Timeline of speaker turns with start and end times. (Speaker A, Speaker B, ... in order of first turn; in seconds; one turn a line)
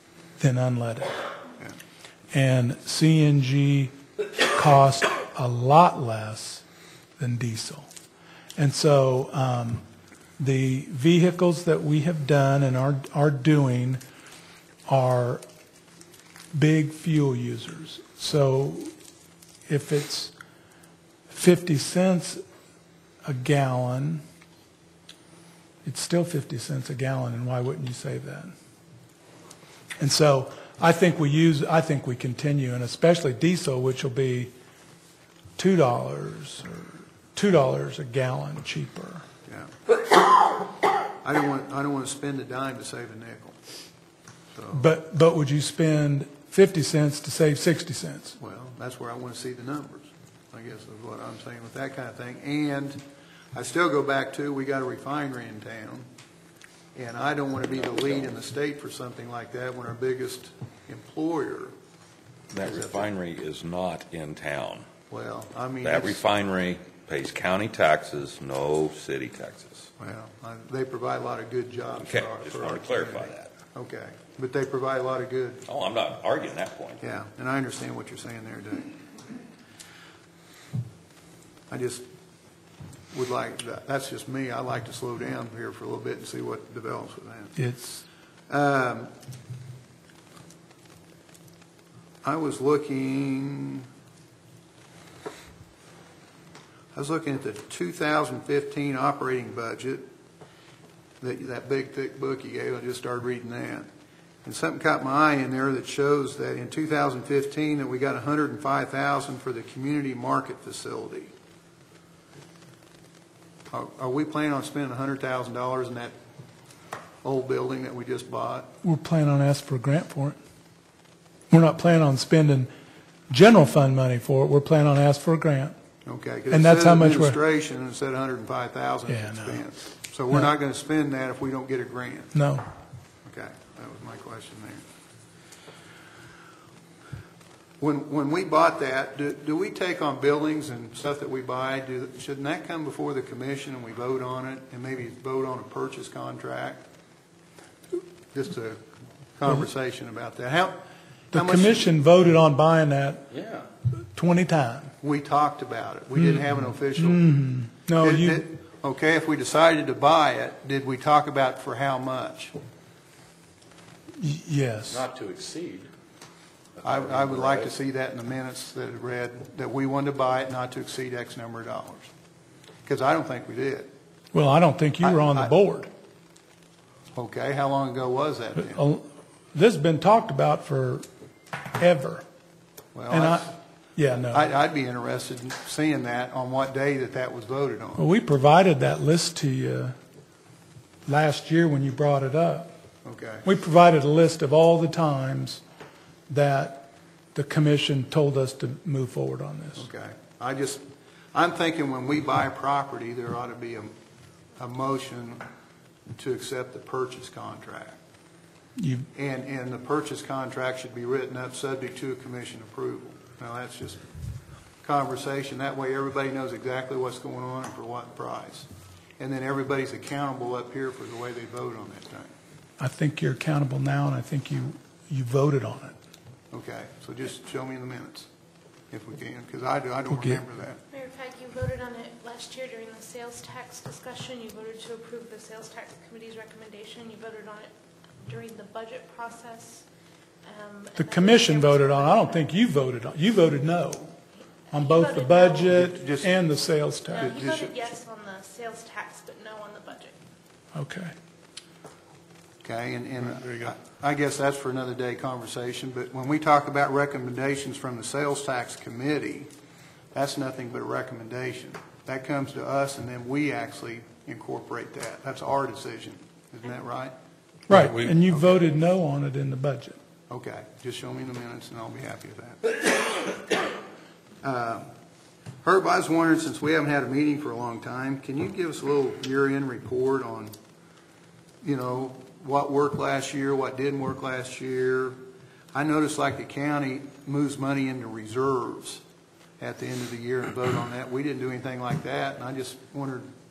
Speaker A: 0.4-1.1
Speaker A: 2.3-6.6
Speaker A: 7.2-7.9
Speaker A: 8.6-9.8
Speaker A: 10.4-14.0
Speaker A: 14.9-15.4
Speaker A: 16.5-18.9
Speaker A: 19.7-20.3
Speaker A: 21.3-22.4
Speaker A: 23.2-24.2
Speaker A: 25.8-28.5
Speaker A: 30.0-34.5
Speaker A: 35.6-39.2
Speaker B: 41.2-43.5
Speaker B: 44.5-44.9
Speaker A: 44.7-48.4
Speaker B: 48.4-53.0
Speaker B: 53.5-56.0
Speaker B: 56.9-61.7
Speaker C: 62.5-64.9
Speaker B: 62.6-63.1
Speaker B: 65.1-66.2
Speaker C: 65.8-69.9
Speaker B: 70.0-75.7
Speaker C: 72.0-73.5
Speaker C: 75.7-77.0
Speaker B: 77.0-78.9
Speaker B: 81.7-82.0
Speaker B: 83.1-87.6
Speaker A: 87.6-88.0
Speaker B: 88.5-89.1
Speaker B: 92.2-93.9
Speaker B: 96.9-100.0
Speaker B: 101.2-103.9
Speaker B: 104.4-111.3
Speaker B: 113.7-116.1
Speaker B: 117.2-118.7
Speaker A: 118.8-120.4
Speaker A: 121.5-122.7
Speaker A: 123.3-125.7
Speaker B: 126.0-132.3
Speaker A: 126.5-127.4
Speaker A: 129.1-129.6
Speaker A: 132.3-132.7
Speaker B: 133.2-134.8
Speaker B: 137.8-146.8
Speaker B: 148.3-148.8
Speaker B: 149.4-151.9
Speaker A: 151.3-153.3
Speaker A: 154.0-154.9
Speaker B: 155.0-157.3
Speaker A: 156.2-158.4
Speaker B: 158.0-162.5
Speaker A: 164.2-165.0
Speaker C: 164.9-165.9
Speaker C: 166.8-167.7
Speaker B: 166.8-172.1
Speaker B: 172.8-173.9
Speaker A: 174.3-175.9
Speaker B: 175.0-175.5
Speaker B: 177.1-178.8
Speaker A: 178.6-181.1
Speaker A: 181.7-182.2
Speaker B: 182.9-183.5
Speaker A: 183.1-184.4
Speaker B: 184.2-188.0
Speaker A: 188.0-189.9
Speaker A: 191.1-192.7
Speaker B: 193.0-193.4
Speaker A: 193.4-195.6
Speaker A: 196.3-199.9
Speaker B: 199.8-200.8
Speaker B: 201.3-203.9
Speaker B: 204.6-205.4
Speaker B: 206.2-208.0
Speaker A: 208.8-209.1
Speaker B: 209.1-214.0
Speaker B: 214.8-218.7
Speaker B: 219.2-222.3
Speaker A: 222.8-225.9
Speaker B: 226.5-228.3
Speaker B: 228.9-230.8
Speaker A: 230.1-230.4
Speaker D: 230.9-237.7
Speaker D: 238.2-239.8
Speaker D: 240.4-242.4
Speaker A: 240.9-244.1
Speaker D: 244.7-245.9
Speaker A: 244.7-247.4
Speaker B: 245.7-246.3
Speaker D: 247.1-250.2
Speaker B: 247.2-247.8
Speaker A: 250.7-251.1
Speaker B: 252.6-259.5
Speaker B: 260.1-267.1
Speaker A: 267.7-270.0
Speaker C: 267.7-268.3
Speaker B: 270.3-273.3
Speaker B: 274.4-274.9
Speaker B: 275.6-280.5
Speaker B: 281.6-285.1
Speaker B: 285.7-289.0
Speaker B: 289.6-293.3